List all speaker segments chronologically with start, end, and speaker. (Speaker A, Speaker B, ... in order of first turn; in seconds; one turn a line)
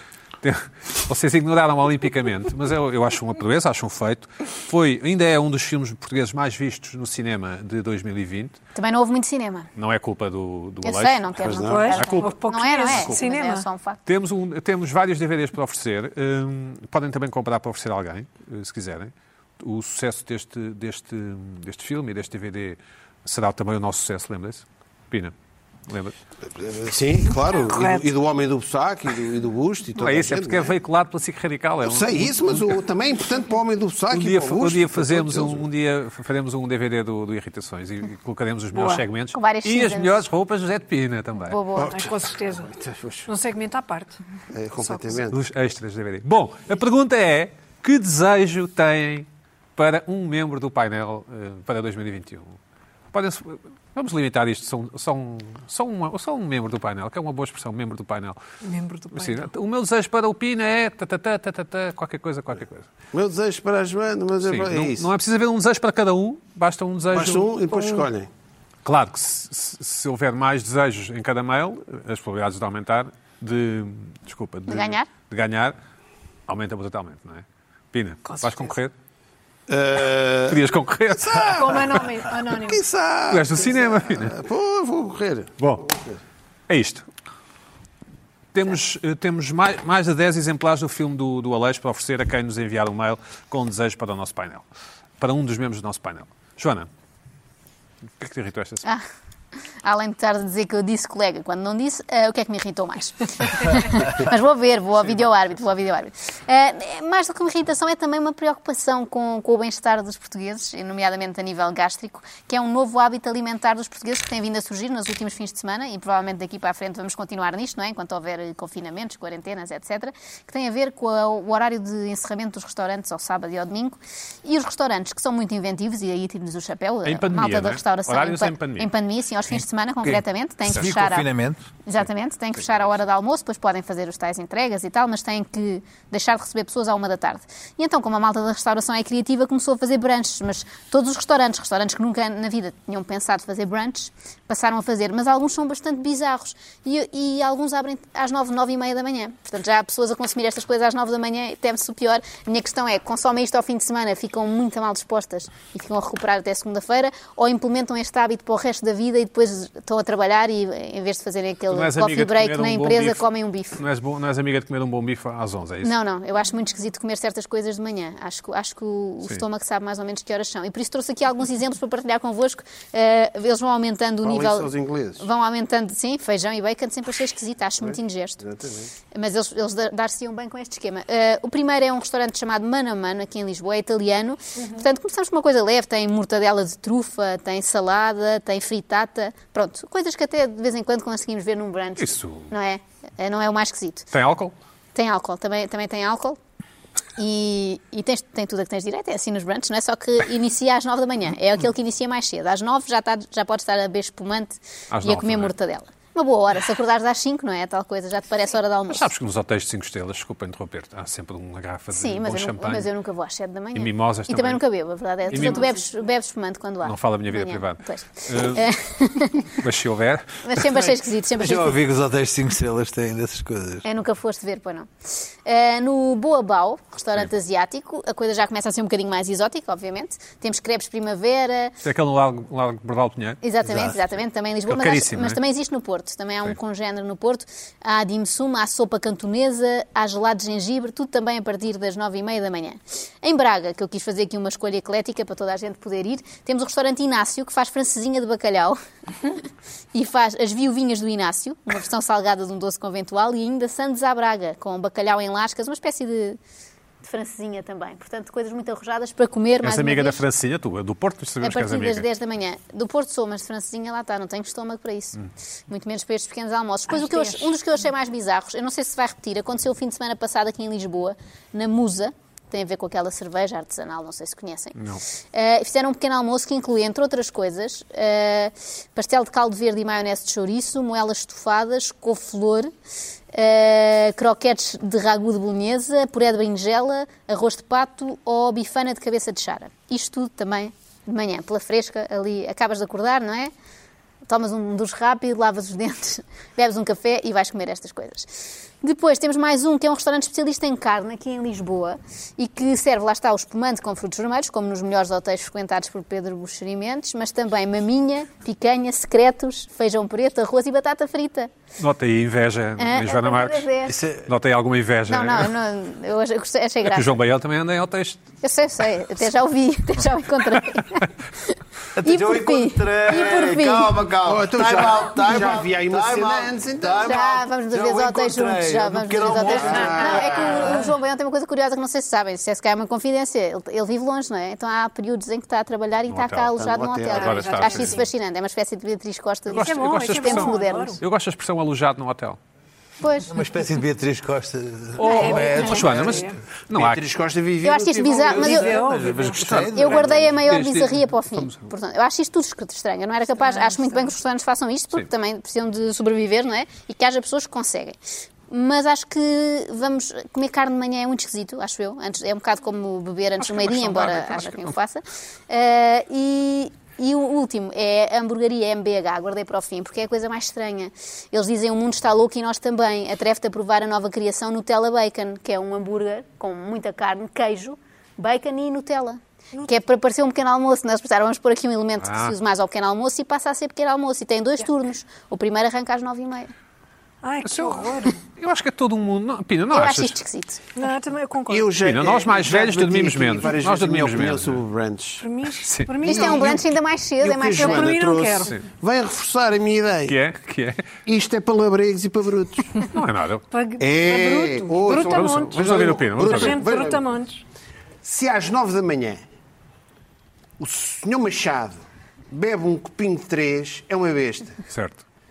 Speaker A: 0.4-8.6
Speaker B: 8.7-9.7
Speaker A: 9.8-13.2
Speaker B: 10.8-14.0
Speaker C: 11.4-12.1
Speaker D: 11.7-13.7
Speaker A: 14.1-25.3
Speaker A: 25.9-26.1
Speaker C: 26.4-30.7
Speaker D: 27.6-28.1
Speaker A: 30.0-32.7
Speaker C: 31.8-35.7
Speaker A: 34.1-41.6
Speaker B: 38.7-40.2
Speaker B: 41.5-42.0
Speaker C: 41.7-43.3
Speaker D: 41.8-42.7
Speaker D: 43.3-44.2
Speaker C: 44.5-45.4
Speaker D: 44.8-45.2
Speaker A: 45.3-52.6
Speaker A: 53.1-58.4
Speaker D: 58.6-59.5
Speaker A: 59.1-62.9
Speaker C: 63.1-65.1
Speaker A: 64.4-67.5
Speaker C: 67.1-68.3
Speaker A: 68.8-75.8
Speaker B: 74.7-75.1
Speaker A: 76.5-78.9
Speaker D: 78.2-78.7
Speaker C: 79.7-86.2
Speaker A: 80.5-81.6
Speaker D: 81.5-82.8
Speaker A: 83.3-84.3
Speaker A: 85.6-85.8
Speaker A: 86.7-87.0
Speaker A: 88.5-94.6
Speaker A: 95.2-96.9
Speaker A: 98.2-98.8
Speaker B: 99.8-131.3
Speaker A: 127.0-128.9
Speaker E: 130.0-131.6
Speaker B: 131.8-163.8
Speaker A: 132.6-132.8
Speaker A: 161.7-163.2
Speaker A: 163.8-165.9
Speaker B: 165.8-178.4
Speaker C: 174.2-175.2
Speaker C: 177.8-178.9
Speaker B: 179.1-194.1
Speaker A: 192.0-192.5
Speaker A: 194.1-194.5
Speaker B: 194.9-196.4
Speaker B: 197.2-209.0
Speaker A: 204.9-205.5
Speaker A: 208.9-212.9
Speaker B: 211.9-219.5
Speaker A: 213.7-214.6
Speaker A: 215.3-215.7
Speaker A: 216.8-218.7
Speaker A: 219.6-220.8
Speaker B: 220.4-221.8
Speaker E: 221.4-223.8
Speaker B: 223.8-224.9
Speaker B: 225.4-231.8
Speaker A: 231.8-233.4
Speaker B: 233.4-256.4
Speaker A: 234.7-235.4
Speaker B: 257.0-260.2
Speaker A: 259.6-262.0
Speaker B: 261.4-274.8
Speaker D: 266.9-267.5
Speaker A: 274.8-275.0
Speaker B: 275.3-282.7
Speaker B: 283.3-293.5
Speaker B: 294.3-298.3
Speaker B: 298.8-311.5
Speaker A: 311.8-313.7
Speaker B: 312.8-313.9
Speaker E: 313.9-314.3
Speaker A: 314.2-315.5
Speaker B: 315.1-317.2
Speaker A: 316.9-318.2
Speaker B: 318.4-323.9
Speaker E: 322.0-330.9
Speaker C: 324.2-327.4
Speaker B: 327.0-341.0
Speaker C: 329.5-330.7
Speaker A: 336.1-336.5
Speaker C: 336.6-337.6
Speaker A: 337.1-338.0
Speaker D: 337.3-338.0
Speaker A: 339.5-342.4
Speaker D: 339.5-341.0
Speaker B: 343.0-343.3
Speaker E: 343.3-346.3
Speaker D: 345.0-346.4
Speaker B: 345.0-345.6
Speaker A: 345.2-347.0
Speaker C: 346.7-348.8
Speaker B: 347.6-348.8
Speaker E: 348.1-350.4
Speaker D: 348.4-349.6
Speaker A: 349.3-351.7
Speaker B: 349.6-358.0
Speaker D: 353.4-354.1
Speaker B: 358.5-386.5
Speaker A: 363.4-364.7
Speaker A: 382.0-382.3
Speaker D: 387.2-388.2
Speaker A: 387.4-390.1
Speaker B: 389.7-390.6
Speaker D: 390.8-391.7
Speaker C: 391.5-395.3
Speaker A: 391.8-394.6
Speaker D: 395.2-396.6
Speaker A: 395.6-395.9
Speaker C: 396.0-400.1
Speaker B: 396.0-398.0
Speaker D: 397.5-398.5
Speaker A: 400.1-400.9
Speaker C: 401.1-402.8
Speaker A: 402.9-403.4
Speaker D: 403.5-407.4
Speaker C: 403.8-407.1
Speaker A: 405.1-406.6
Speaker C: 408.0-409.2
Speaker C: 410.6-414.6
Speaker A: 414.7-415.0